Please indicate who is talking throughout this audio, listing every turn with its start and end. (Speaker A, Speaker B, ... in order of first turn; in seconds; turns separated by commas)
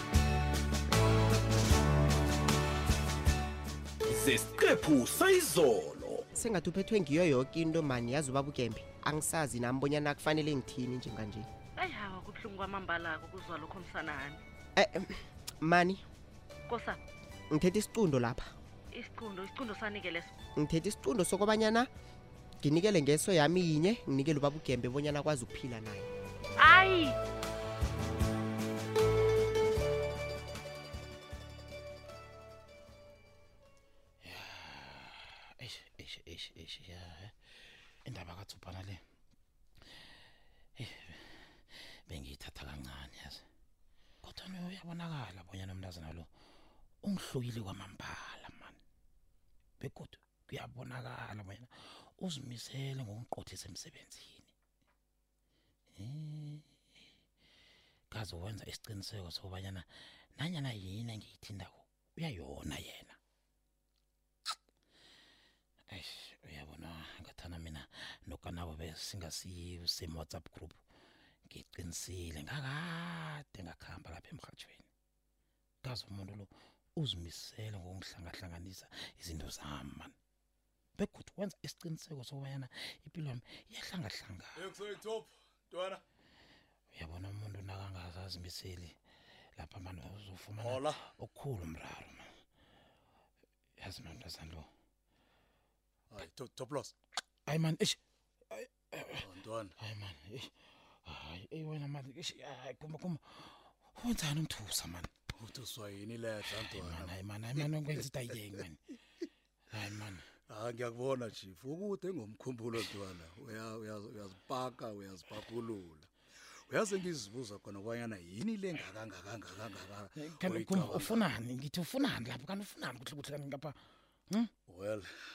Speaker A: 4.1-6.1, Speaker B: 6.3-11.5, Speaker C: 11.8-14.3, Speaker B: 14.8-16.0, Speaker B: 17.5-18.5, Speaker C: 18.9-20.3, Speaker B: 20.6-21.9, Speaker B: 22.6-26.1, Speaker C: 26.6-27.1, Speaker D: 34.2-37.3, Speaker D: 38.0-39.0, Speaker D: 40.8-41.4, Speaker D: 42.1-43.4, Speaker D: 44.2-46.3, Speaker D: 47.0-48.8, Speaker D: 49.8-54.5, Speaker D: 56.0-56.7, Speaker D: 58.1-63.1, Speaker D: 65.9-70.8, Speaker D: 71.5-74.9, Speaker D: 75.8-80.1, Speaker D: 81.0-84.6, Speaker E: 84.5-86.0, Speaker D: 86.9-89.0, Speaker D: 89.6-92.2, Speaker E: 90.6-91.0, Speaker D: 93.8-94.7, Speaker E: 96.1-96.9, Speaker D: 97.5-98.0, Speaker D: 98.5-99.3, Speaker E: 99.2-99.7, Speaker D: 99.8-100.5, Speaker D: 101.0-105.1, Speaker E: 105.3-107.7, Speaker D: 106.4-108.8, Speaker D: 109.7-110.2, Speaker E: 110.5-116.1, Speaker E: 116.7-121.3, Speaker D: 120.2-123.7, Speaker E: 124.7-125.1